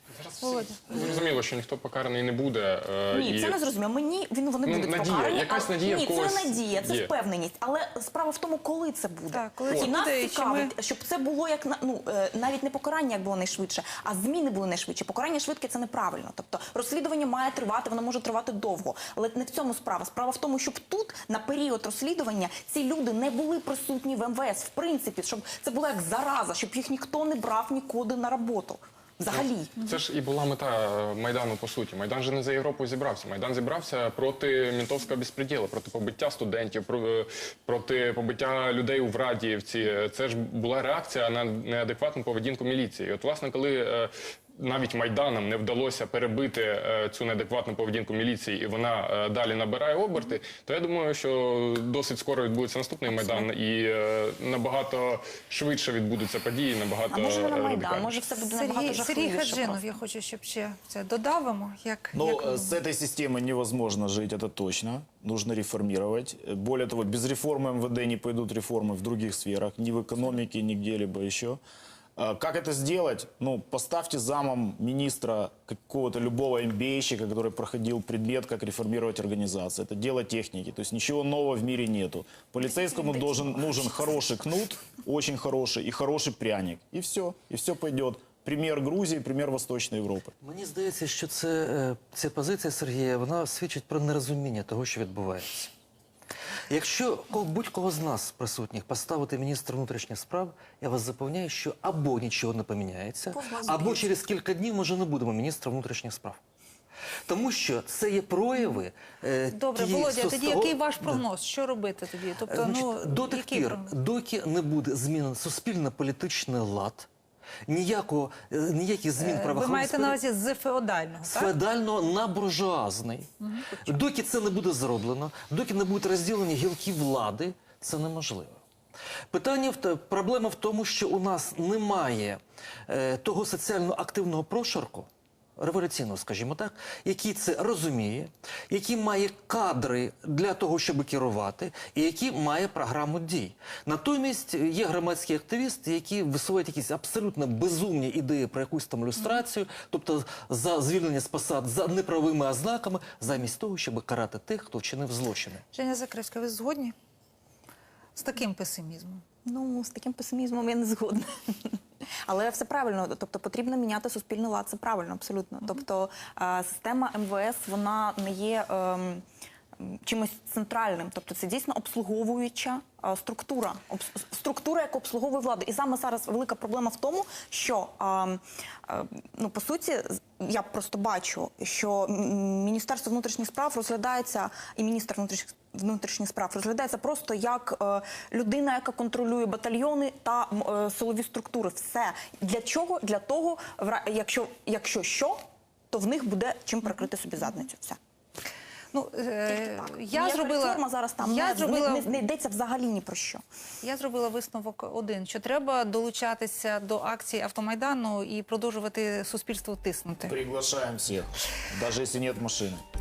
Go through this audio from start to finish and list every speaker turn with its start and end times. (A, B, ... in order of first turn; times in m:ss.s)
0:00.2-0:03.6 A
0:00.4-0:00.8 B
0:03.1-0:29.8 C
0:04.6-0:07.1 A
0:09.3-0:10.7 B
0:09.7-0:10.0 A
0:29.3-0:44.1 A
0:44.6-0:58.2 A
0:53.1-0:53.4 B
0:57.1-0:59.8 C
0:58.5-1:02.8 B
1:02.1-1:11.6 D
1:12.2-1:30.3 D
1:22.6-1:24.2 C
1:30.4-1:35.7 E
1:36.7-1:46.4 E
1:43.3-1:44.1 C
1:47.2-1:51.2 E
1:49.5-1:54.0 B
1:52.4-1:57.1 E
1:57.7-2:00.2 E
1:59.2-2:01.5 B
2:01.2-2:08.6 E
2:09.3-2:35.6 E
2:35.7-2:37.0 B
2:38.2-2:39.2 B
2:39.4-2:49.2 C
2:49.8-3:15.4 C
3:15.9-3:18.0 C
3:18.9-3:22.1 B
3:19.5-3:23.4 C
3:23.8-3:30.4 B
3:30.3-3:32.8 D